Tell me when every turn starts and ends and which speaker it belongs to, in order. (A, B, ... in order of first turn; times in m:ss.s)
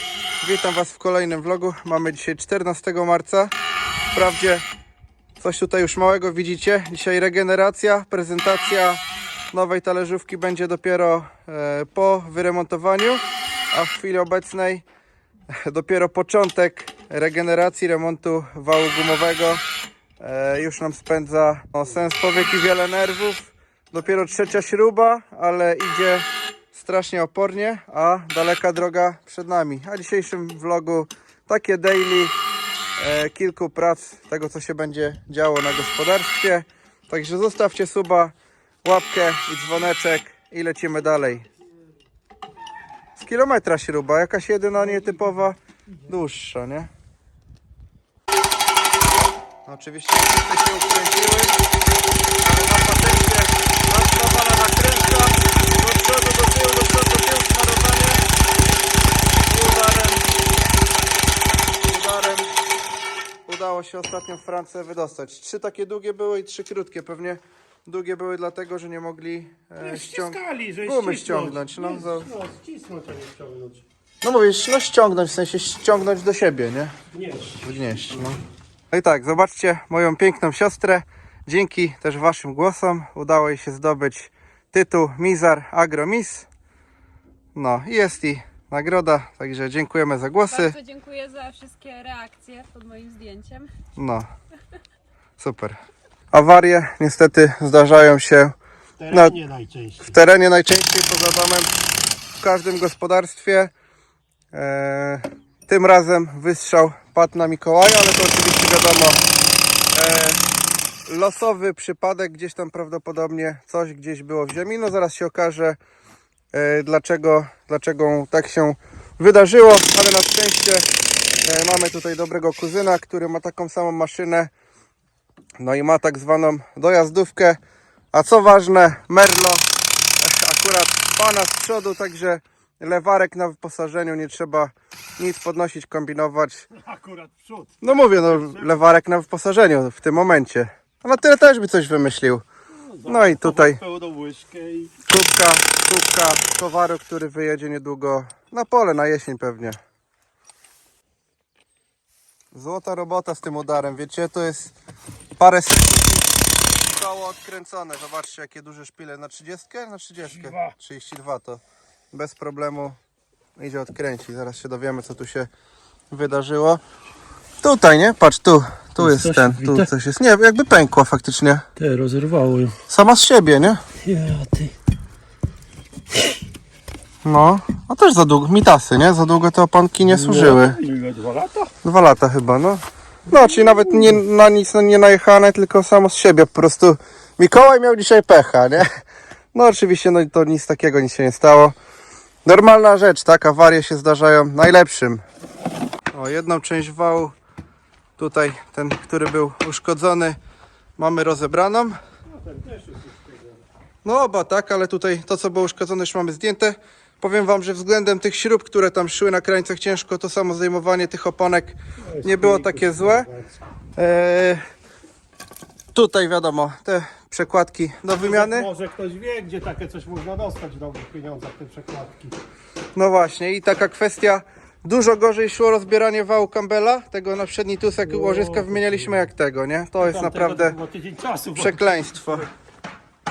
0:00.4-0:03.5 A
0:04.1-0:04.6 A
0:05.4-0:14.8 A
0:15.6-0:19.6 A
0:20.2-0:32.3 A
0:33.0-0:41.5 A
0:43.2-0:46.9 A
0:49.7-0:51.6 A
0:52.4-0:58.2 A
0:59.4-1:00.3 A
1:01.8-1:02.5 A
1:03.4-1:12.3 A
1:09.8-1:13.8 B
1:14.2-1:16.9 A
1:17.1-1:17.6 B
1:17.6-1:18.4 A
1:18.9-1:26.5 A
1:27.6-1:30.8 A
1:30.5-1:33.7 C
1:34.0-1:34.3 A
1:35.4-1:35.8 A
1:36.3-1:38.5 A
1:39.0-1:40.2 B
1:39.1-1:39.4 A
1:40.0-1:41.7 A
1:42.4-1:43.7 A
1:44.5-1:49.2 A
1:49.9-1:50.4 A
1:51.1-1:55.8 A
1:56.5-2:00.9 A
2:01.4-2:04.5 A
2:05.6-2:07.6 A
2:08.1-2:09.6 A
2:10.2-2:16.7 A
2:16.8-2:18.8 B
2:17.8-2:22.4 A
2:22.8-2:25.0 B
2:23.0-2:23.8 A
2:25.1-2:29.8 A
2:32.5-2:34.7 A
2:35.4-2:43.0 A
2:43.6-2:45.5 A
2:46.1-2:46.8 A
2:47.6-2:51.7 A
2:49.0-2:49.9 B
2:51.8-2:52.8 B
2:52.9-2:53.8 A
2:54.0-2:54.7 B
2:57.2-3:00.8 A
3:00.0-3:01.7 B
3:01.8-3:08.9 A
3:03.7-3:04.0 B
3:09.5-3:11.8 A
3:12.4-3:15.2 A
3:16.1-3:17.3 A
3:18.2-3:20.4 A
3:21.0-3:22.0 A
3:22.3-3:23.6 B
3:24.0-3:33.3 A
3:32.0-3:33.5 B
3:34.0-3:34.6 A
3:35.9-3:38.7 A
3:38.1-3:42.4 B
3:42.9-3:50.8 A
3:48.1-3:49.0 B
3:50.0-3:51.8 B
3:51.6-3:52.5 A